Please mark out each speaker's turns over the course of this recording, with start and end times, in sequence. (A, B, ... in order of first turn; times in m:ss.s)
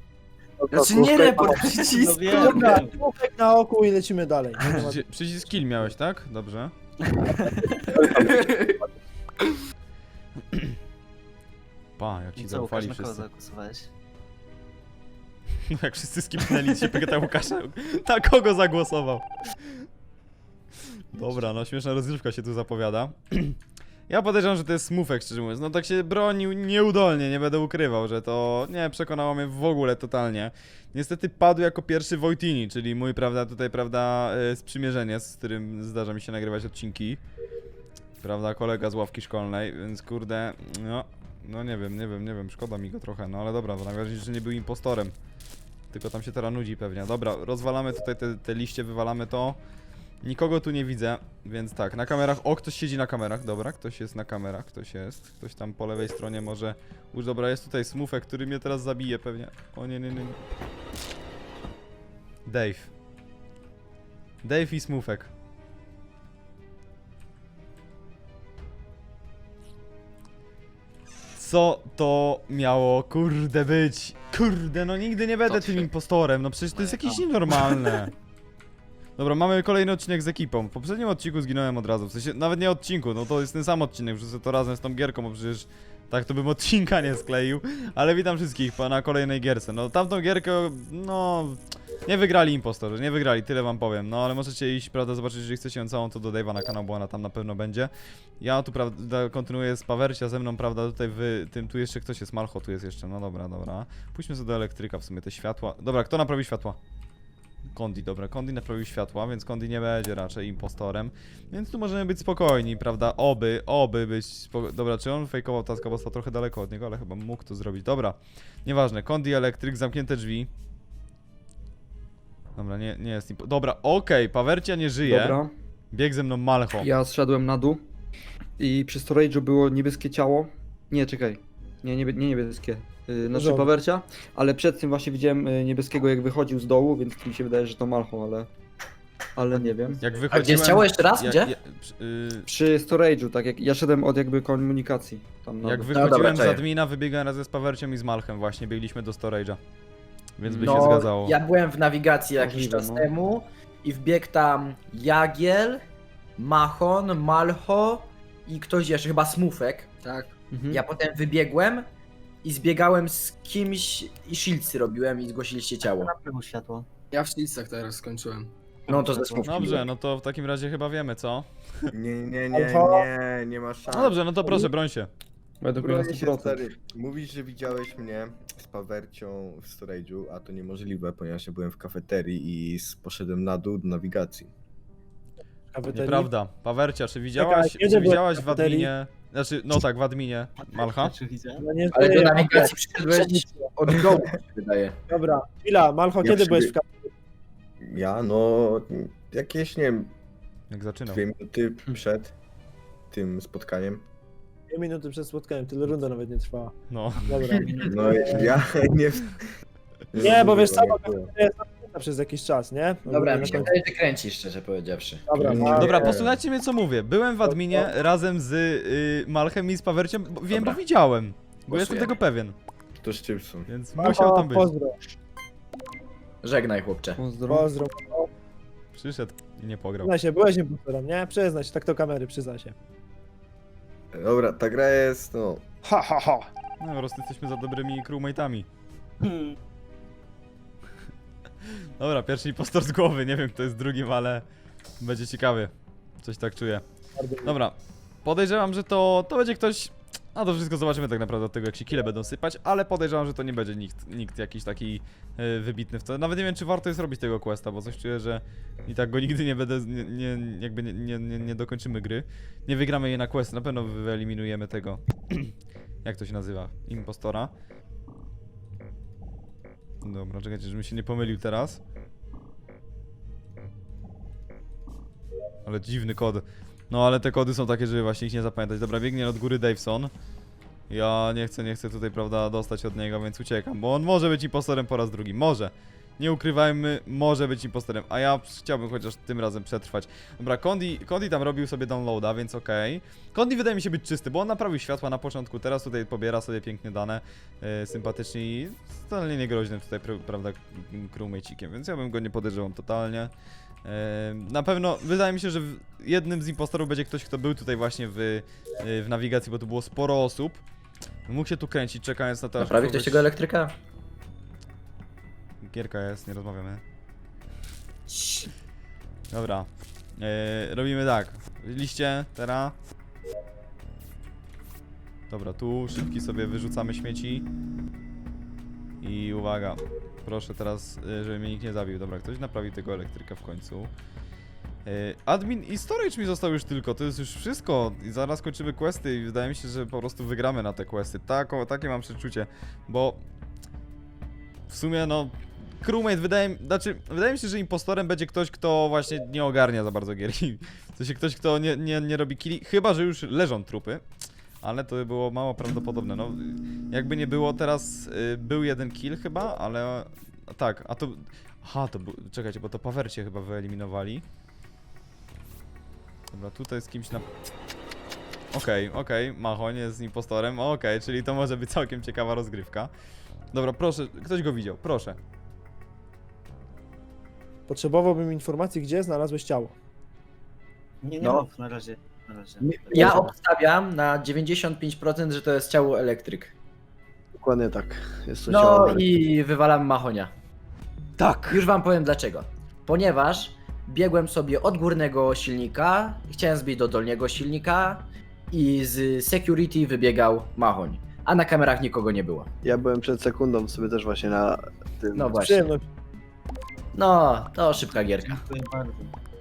0:00.6-0:01.9 A
0:00.7-0:02.8 B
0:01.8-0:03.0 C
0:02.3-0:05.0 D
0:04.7-0:06.7 E
0:07.2-0:08.0 C
0:08.0-0:08.8 B
0:08.0-0:08.3 A
0:12.0-0:13.2 E
0:12.4-0:13.9 C
0:15.7-0:19.9 E
0:21.1-0:37.2 E
0:38.2-0:45.2 E
0:45.9-0:49.6 E
0:50.2-1:00.4 E
1:02.5-1:02.9 E
1:04.4-1:05.3 E
1:11.4-1:18.1 E
1:16.8-1:18.0 C
1:19.2-1:46.8 E
1:47.7-2:00.5 E
2:02.6-2:05.4 E
2:05.0-2:05.5 F
2:05.9-2:06.9 E
2:06.8-2:07.8 F
2:08.6-2:18.5 F
2:13.3-2:13.7 D
2:19.4-2:20.0 F
2:20.0-2:22.5 E
2:20.3-2:21.5 G
2:22.5-2:26.1 F
2:25.6-2:29.6 E
2:26.0-2:26.6 G
2:30.4-2:31.4 E
2:30.5-2:31.1 F
2:30.6-2:35.8 G
2:32.4-2:33.1 F
2:36.4-2:39.9 G
2:40.0-2:40.3 B
2:40.5-2:40.8 F
2:40.7-2:41.9 G
2:42.4-2:46.1 G
2:45.8-2:46.9 C
2:47.1-2:48.5 B
2:48.9-2:49.6 C
2:48.9-2:49.8 G
2:49.4-2:51.5 E
2:51.9-2:54.2 H
2:52.5-2:53.1 D
2:53.9-2:55.1 E
2:55.6-2:56.6 F
2:55.8-3:04.5 H
3:05.7-3:06.3 D
3:05.9-3:11.1 E
3:07.4-3:08.9 D
3:10.6-3:11.6 C
3:11.6-3:13.7 D
3:11.9-3:15.0 G
3:13.9-3:14.3 H
3:15.1-3:17.0 D
3:16.2-3:16.8 H
3:17.8-3:20.1 H
3:20.7-3:21.2 E
3:21.1-3:22.3 H
3:23.1-3:24.0 H
3:24.7-3:26.7 D
3:26.9-3:27.4 E
3:27.2-3:28.5 C
3:27.3-3:28.6 D
3:27.8-3:29.4 H
3:30.1-3:31.3 H
3:30.2-3:33.8 D
3:33.1-3:35.2 G
3:33.4-3:33.7 H
3:35.3-3:36.1 D
3:35.4-3:36.4 H
3:35.8-3:42.6 E
3:37.4-3:37.9 D
3:41.7-3:42.1 G
3:43.0-3:43.7 H
3:43.7-3:44.7 E
3:44.0-3:45.0 D
3:46.4-3:47.2 G
3:47.2-3:47.7 F
3:47.5-3:48.3 D
3:48.9-3:50.1 E
3:50.0-3:52.8 D
3:54.1-3:55.6 H
3:55.9-3:56.5 D
3:56.8-3:58.7 E
3:59.2-3:59.6 C
4:02.0-4:04.4 E
4:05.0-4:06.8 E
4:07.2-4:07.6 D
4:07.4-4:25.5 E
4:26.0-4:27.5 E
4:30.0-4:31.8 E
4:35.7-4:40.1 E
4:40.9-5:03.3 E
5:03.8-5:10.6 E
5:11.3-5:13.3 E
5:12.6-5:13.8 G
5:15.6-5:16.8 E
5:18.1-5:18.4 G
5:19.3-5:22.7 E
5:25.3-5:27.5 E
5:29.0-5:33.9 E
5:34.8-5:43.2 E
5:44.7-5:54.0 E
5:54.6-6:04.2 E
6:06.3-6:07.2 E
6:08.5-6:12.9 E
6:13.5-6:15.2 E
6:17.7-6:19.7 D
6:21.0-6:23.3 C
6:22.6-6:26.5 G
6:22.9-6:23.3 A
6:27.4-6:29.1 A
6:28.5-6:30.3 G
6:31.2-6:31.6 E
6:31.5-6:42.5 G
6:42.6-6:45.4 A
6:45.2-6:45.7 G
6:45.4-6:45.8 D
6:46.9-6:48.4 G
6:48.2-6:49.1 C